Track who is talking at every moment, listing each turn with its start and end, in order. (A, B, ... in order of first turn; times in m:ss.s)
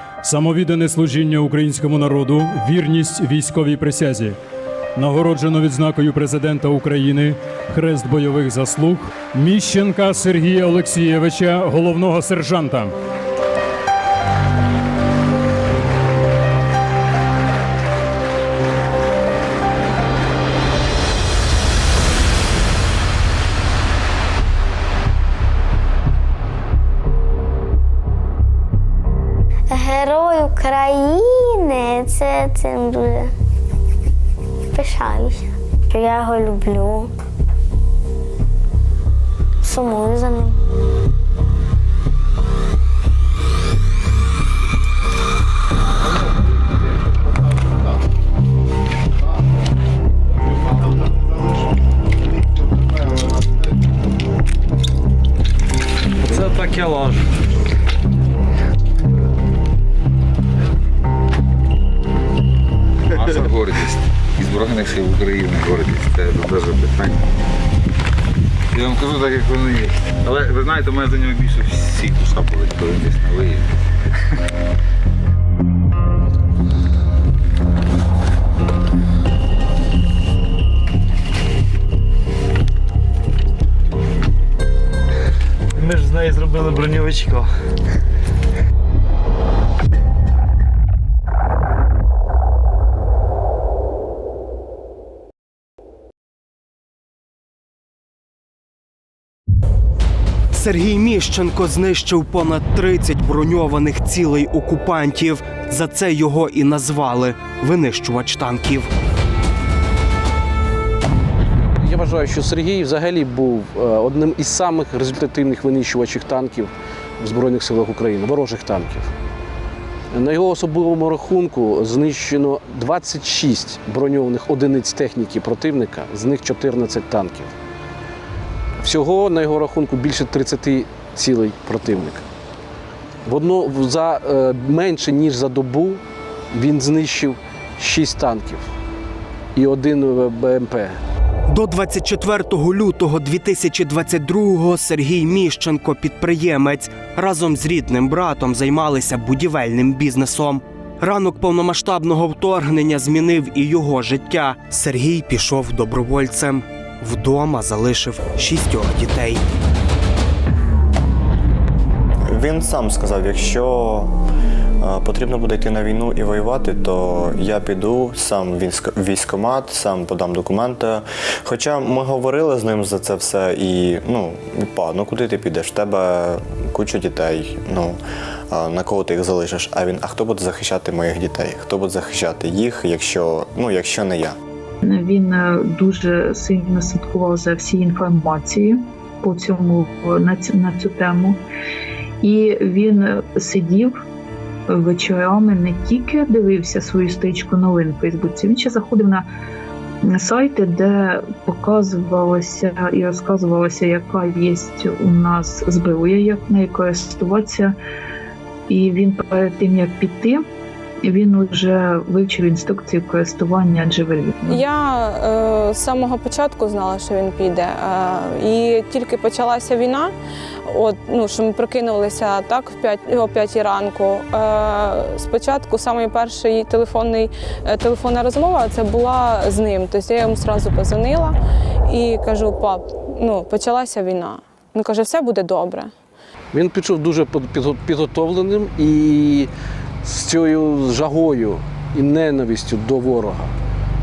0:00.2-0:04.4 A
0:05.0-0:12.9 A
0:29.7-0:33.3 B
0:34.7-0:37.1 B
0:39.6-0:40.6 B
0:56.2-0:57.2 C
1:03.1-1:07.2 D
1:08.7-1:13.7 D
1:25.8-1:27.5 C
1:40.5-1:48.9 E
1:51.8-1:59.1 F
2:00.1-2:07.5 F
2:08.8-2:12.2 F
2:13.2-2:18.6 F
2:19.5-2:21.0 F
2:21.5-2:39.4 E
2:42.3-2:44.1 G
2:44.8-2:58.0 G
2:58.5-3:04.4 G
3:04.8-3:11.4 H
3:12.2-3:14.0 H
3:14.7-3:19.3 H
3:20.0-3:27.8 H
3:28.7-3:30.4 H
3:31.0-3:34.6 H
3:34.5-3:40.1 I
3:40.7-3:55.9 I
3:56.5-3:59.5 F
4:00.0-4:03.5 F